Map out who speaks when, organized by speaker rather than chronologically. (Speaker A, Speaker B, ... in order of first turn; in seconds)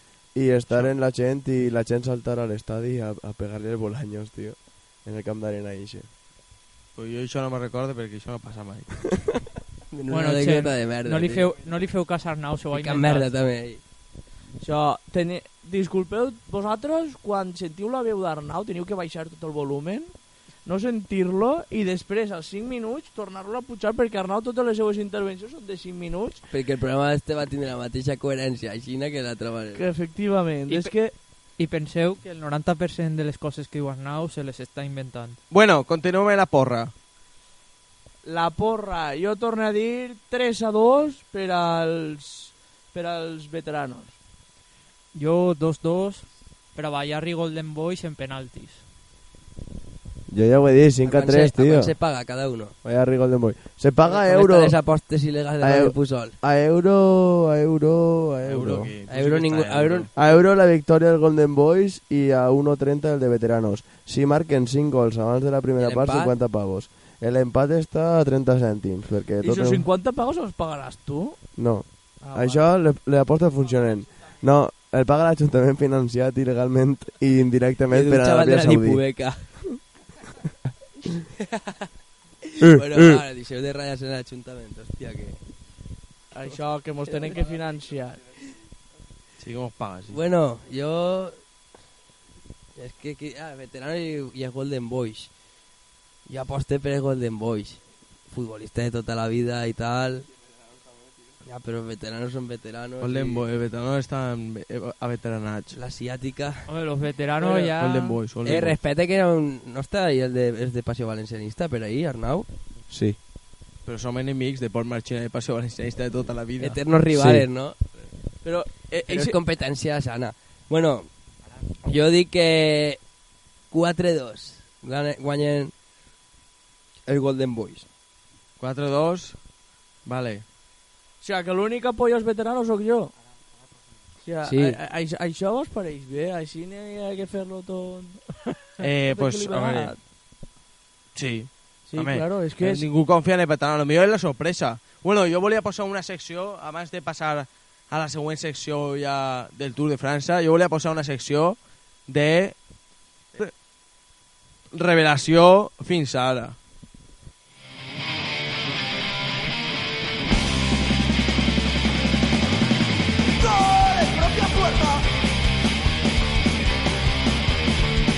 Speaker A: 0.3-6.1, 50.3-51.9, 52.8-54.8, 55.6-58.9, 60.1-69.8, 71.6-79.0, 82.6-83.2, 112.9-113.2, 117.1-117.5
Speaker B: 7.0-9.1, 35.5-36.9, 58.5-60.1, 89.4-90.2, 103.0-105.8, 107.5-108.8, 113.9-116.8, 128.6-129.4, 130.1-130.4, 138.8-139.9, 141.2-152.6, 154.7-156.6
Speaker C: 9.9-11.5, 12.7-13.8, 26.5-29.8, 51.0-52.8, 54.0-56.4, 59.1-60.1, 65.8-66.3, 77.9-79.5, 81.5-81.9, 82.6-85.4, 90.1-91.4, 92.8-95.3, 96.3-100.3, 101.5-103.4, 105.7-106.7, 108.4-112.5, 116.6-117.8, 119.1-121.1, 121.9-123.0, 123.7-125.7, 127.1-127.9, 134.4-134.8
Speaker D: 10.1-13.3, 30.7-31.0, 31.6-35.4, 45.1-48.8, 106.7-108.2
Speaker E: 14.6-20.1, 20.6-26.4, 29.7-31.1, 38.2-44.2, 69.4-71.4, 72.2-72.6, 86.3-88.2, 118.4-119.4, 131.2-133.1, 134.2-138.3, 138.8-140.0, 141.9-142.8, 163.4-165.0